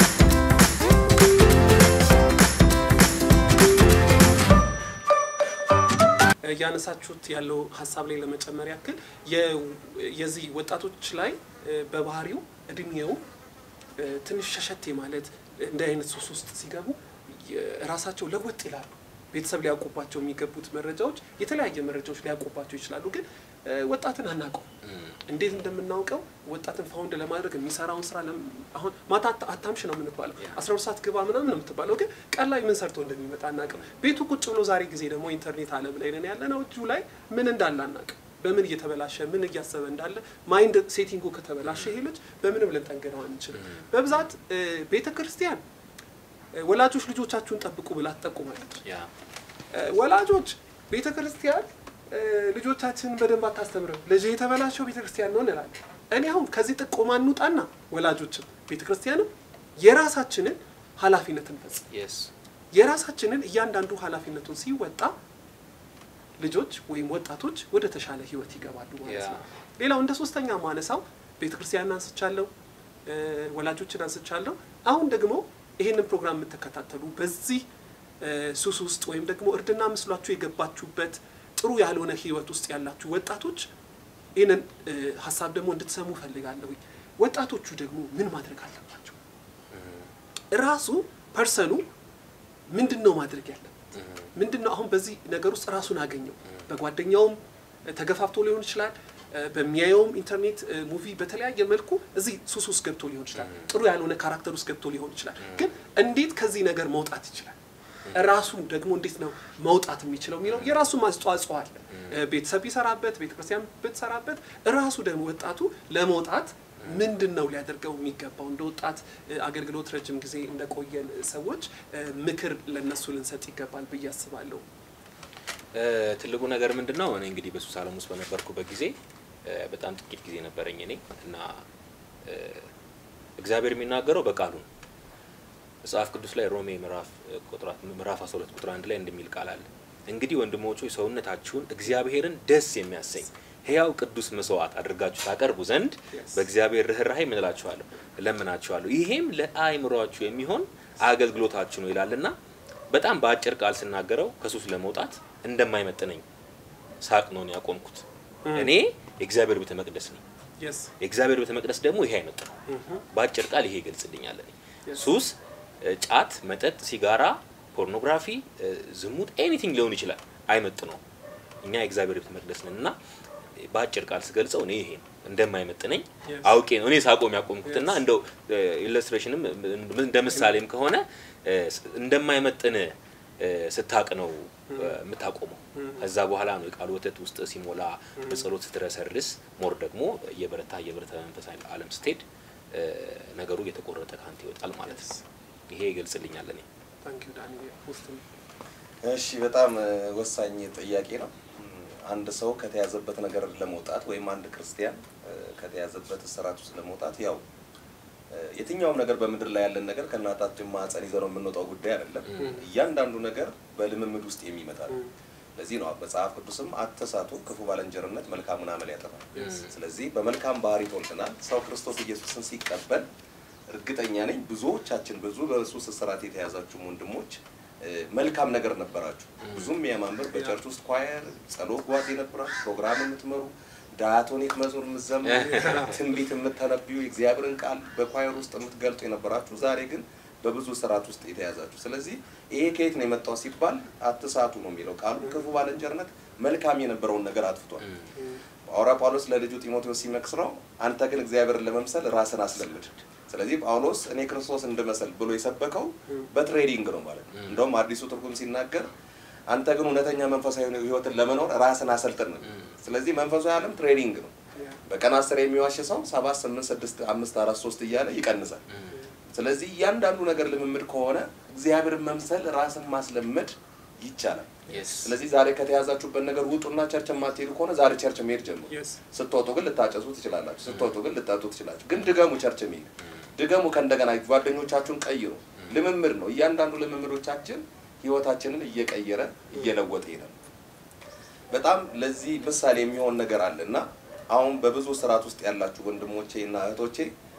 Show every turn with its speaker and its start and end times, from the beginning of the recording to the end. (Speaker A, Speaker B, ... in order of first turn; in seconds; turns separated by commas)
Speaker A: 6.4-13.2, Speaker A: 14.0-24.7, Speaker B: 24.8-25.2, Speaker A: 25.3-45.6, Speaker B: 41.6-41.9, Speaker B: 43.5-44.3, Speaker A: 46.5-48.8, Speaker B: 48.8-49.1, Speaker A: 49.7-61.9, Speaker B: 61.9-62.3, Speaker A: 62.7-65.1, Speaker A: 66.4-72.5, Speaker B: 69.0-69.4, Speaker A: 73.0-77.6, Speaker A: 78.2-83.7, Speaker A: 84.3-89.2, Speaker B: 89.7-90.1, Speaker A: 90.5-91.8, Speaker A: 92.7-93.7, Speaker B: 93.9-94.3, Speaker A: 94.3-107.5, Speaker B: 103.4-103.7, Speaker A: 108.1-124.6, Speaker B: 110.5-110.9, Speaker B: 125.7-131.6, Speaker B: 132.2-132.7, Speaker B: 133.4-134.7, Speaker B: 135.8-152.3, Speaker A: 146.1-146.4, Speaker B: 152.9-156.2, Speaker B: 157.0-160.2, Speaker A: 158.4-158.7, Speaker A: 160.6-160.9, Speaker B: 161.0-162.5, Speaker A: 162.7-163.0, Speaker B: 163.1-171.0, Speaker A: 164.9-165.1, Speaker B: 171.6-172.9, Speaker B: 173.6-195.1, Speaker A: 176.2-176.6, Speaker A: 177.6-178.0, Speaker A: 184.7-184.9, Speaker A: 185.8-186.1, Speaker A: 188.2-188.4, Speaker A: 194.8-195.2, Speaker B: 195.7-196.6, Speaker A: 197.0-198.2, Speaker C: 199.0-207.4, Speaker C: 208.3-214.9, Speaker A: 212.4-212.6, Speaker C: 215.6-223.1, Speaker A: 219.3-219.6, Speaker B: 219.4-219.7, Speaker C: 223.7-247.9, Speaker B: 229.4-229.7, Speaker A: 230.3-230.6, Speaker B: 235.2-235.9, Speaker A: 235.6-236.0, Speaker A: 248.2-248.4, Speaker C: 248.7-258.9, Speaker B: 257.3-257.6, Speaker C: 259.5-264.3, Speaker C: 264.9-268.6, Speaker C: 269.3-290.3, Speaker B: 274.7-275.1, Speaker A: 274.7-274.9, Speaker A: 278.7-279.0, Speaker B: 280.7-280.9, Speaker C: 291.5-297.1